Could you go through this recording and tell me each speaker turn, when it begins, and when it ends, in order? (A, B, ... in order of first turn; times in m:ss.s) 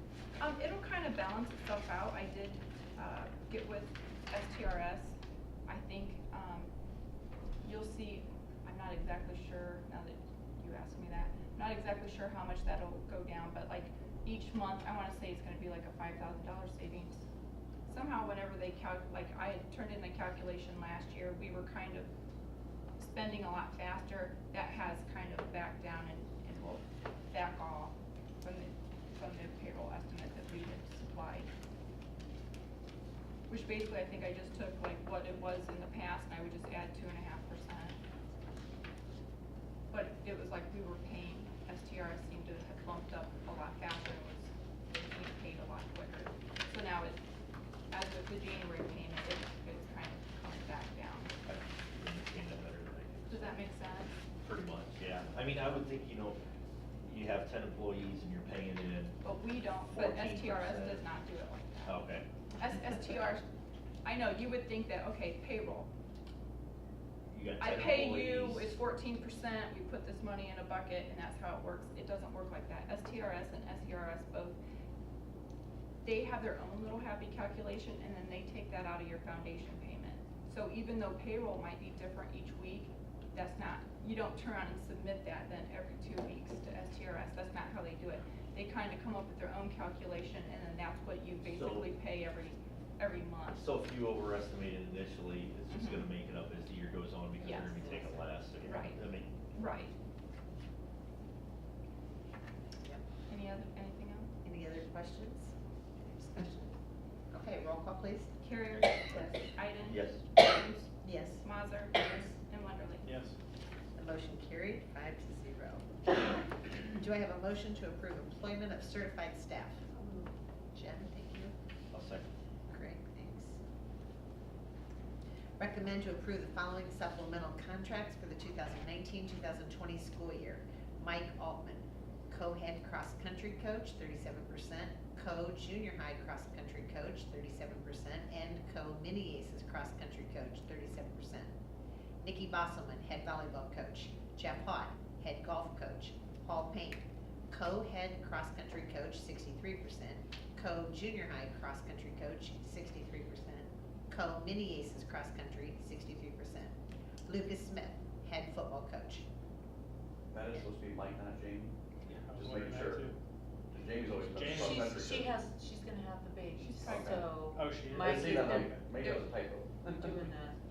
0:00.4-0:06.7 A
0:07.6-0:17.2 A
0:17.9-0:22.1 A
0:23.0-0:31.5 A
0:33.5-0:38.0 A
0:39.9-0:47.2 A
0:47.9-0:51.3 A
0:51.4-0:53.6 B
0:53.3-0:54.2 A
0:54.4-0:56.4 B
0:57.0-0:59.2 B
0:59.2-1:02.0 A
0:59.9-1:01.0 B
1:01.8-1:02.2 B
1:02.6-1:03.4 A
1:04.0-1:05.9 A
1:07.3-1:08.7 B
1:07.6-1:14.6 A
1:16.0-1:33.6 A
1:31.4-1:32.0 B
1:33.5-1:39.4 B
1:35.7-1:36.1 A
1:37.4-1:37.8 A
1:37.6-1:38.3 C
1:38.6-1:39.0 A
1:39.5-1:39.9 A
1:43.3-1:44.3 A
1:44.4-1:46.7 D
1:47.3-1:48.3 D
1:48.4-1:53.1 A
1:49.8-1:50.2 B
1:51.0-1:51.4 D
1:53.0-1:53.3 E
1:54.0-1:55.9 D
1:56.9-1:59.8 D
1:59.9-2:00.3 C
2:00.7-2:01.5 D
2:01.9-2:02.3 B
2:02.7-2:03.6 D
2:05.6-2:21.5 D
2:22.2-2:36.7 D
2:37.2-2:39.2 D
2:40.3-2:41.8 F
2:42.0-2:43.2 E
2:42.4-2:43.1 F
2:43.7-2:45.4 F
2:44.2-2:44.9 E
2:44.4-2:49.3 C
2:46.6-2:47.2 A
2:46.8-2:47.2 F
2:47.4-2:48.8 E
2:47.9-2:50.2 F
2:49.8-2:50.6 C